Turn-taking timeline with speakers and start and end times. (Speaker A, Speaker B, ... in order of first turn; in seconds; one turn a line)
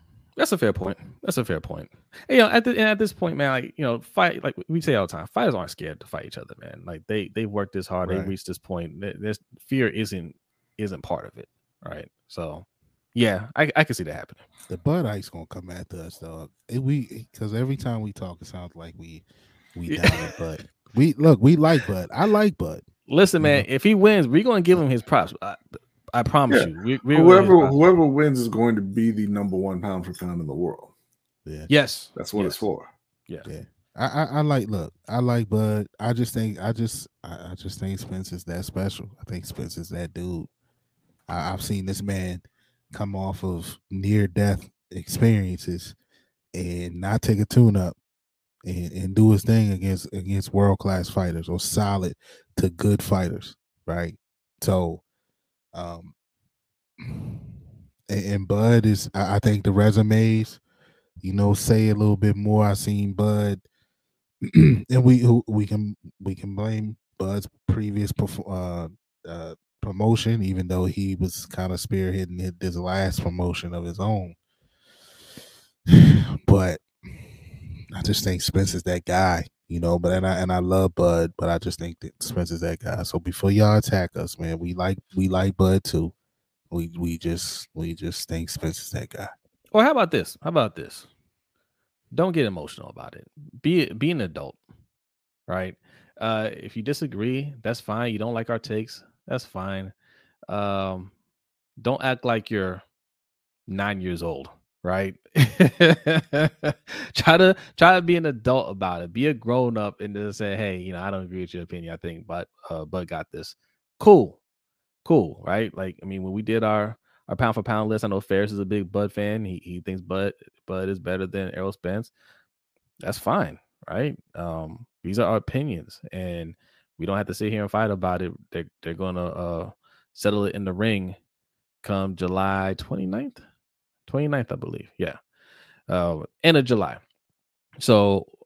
Speaker A: 0.4-14.4
Speaker B: 8.0-8.3
Speaker B: 14.7-19.2
Speaker B: 19.7-22.8
Speaker A: 19.9-20.3
Speaker A: 23.1-27.8
Speaker B: 23.4-23.6
Speaker C: 26.5-30.9
Speaker B: 31.4-31.7
Speaker A: 31.7-32.6
Speaker C: 32.1-32.9
Speaker B: 33.4-40.5
Speaker B: 41.3-45.9
Speaker B: 46.5-48.0
Speaker B: 48.6-55.0
Speaker B: 55.7-56.1
Speaker B: 57.0-57.4
Speaker B: 58.1-60.6
Speaker B: 61.2-63.6
Speaker B: 64.4-74.3
Speaker B: 75.9-76.8
Speaker B: 77.9-86.1
Speaker B: 86.7-89.3
Speaker A: 89.7-91.1
Speaker A: 92.1-94.6
Speaker A: 95.5-99.9
Speaker A: 100.5-101.1
Speaker A: 101.8-102.8
Speaker A: 103.7-114.4
Speaker A: 115.0-122.1
Speaker A: 123.0-131.2
Speaker A: 131.8-133.4
Speaker A: 134.1-135.2
Speaker A: 135.9-137.0
Speaker A: 137.8-138.3